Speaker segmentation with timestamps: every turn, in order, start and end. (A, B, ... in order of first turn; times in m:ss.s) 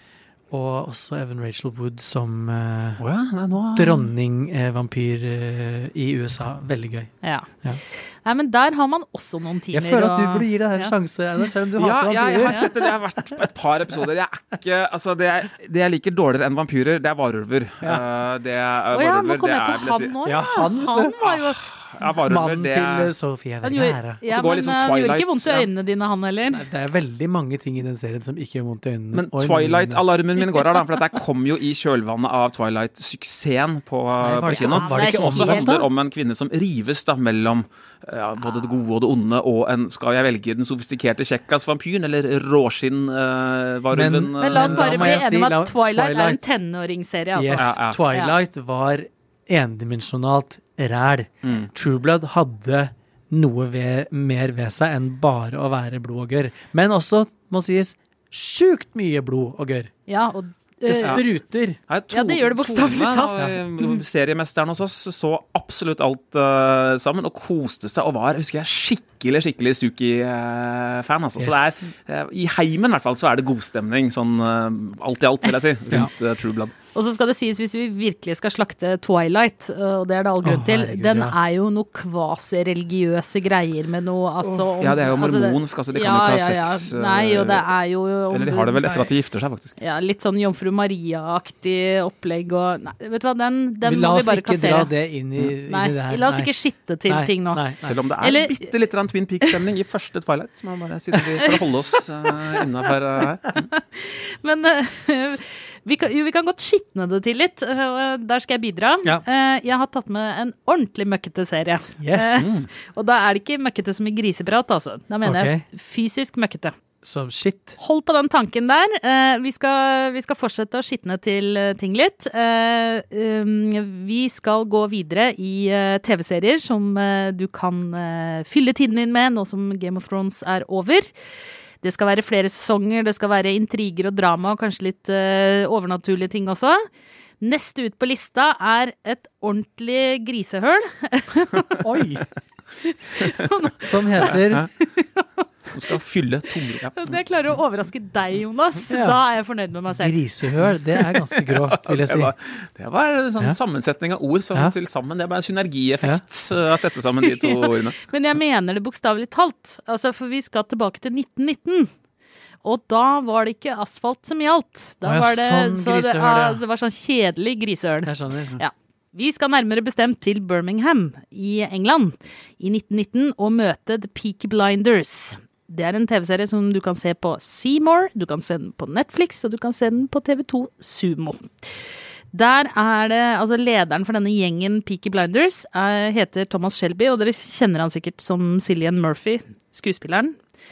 0:00.5-0:03.0 A
0:03.0-0:04.1 B
0:03.7-0:07.8 A
0:07.2-0:10.9 C
0:09.7-0:13.4 A
0:11.8-0:20.2 B
0:18.9-0:21.6 C
0:20.3-0:21.2 A
0:21.2-0:23.1 B
0:22.3-0:24.2 A
0:23.6-0:26.6 C
0:24.3-0:25.7 B
0:26.5-0:30.0 A
0:29.1-0:45.2 B
0:34.2-0:35.9 A
0:34.5-0:35.8 C
0:43.9-0:46.4 A
0:44.4-0:48.3 C
0:47.4-0:59.9 A
0:47.6-0:48.0 B
0:51.4-0:51.7 B
1:00.1-1:01.2 C
1:00.9-1:01.8 A
1:01.9-1:16.8 B
1:02.1-1:04.0 C
1:11.4-1:11.8 A
1:16.9-1:29.1 C
1:20.4-1:21.4 A
1:24.8-1:27.7 B
1:28.3-1:29.8 B
1:29.8-1:34.9 C
1:33.8-1:36.5 A
1:35.7-1:37.6 C
1:37.1-1:38.0 A
1:37.8-1:43.6 B
1:38.2-1:38.7 C
1:43.5-1:56.7 C
1:52.0-1:52.5 A
1:52.4-1:52.7 B
1:55.2-1:55.6 A
1:57.0-1:57.8 A
1:57.8-2:11.1 C
2:11.8-2:16.8 C
2:17.4-2:21.9 C
2:21.8-2:22.3 A
2:22.8-2:26.0 C
2:23.8-2:24.7 A
2:25.7-2:27.2 B
2:26.9-2:30.2 C
2:28.9-2:29.2 A
2:29.9-2:32.3 A
2:31.0-2:38.0 B
2:37.2-2:41.9 C
2:42.6-3:01.6 C
2:45.0-2:46.6 A
2:48.0-2:48.6 A
3:02.3-3:10.4 C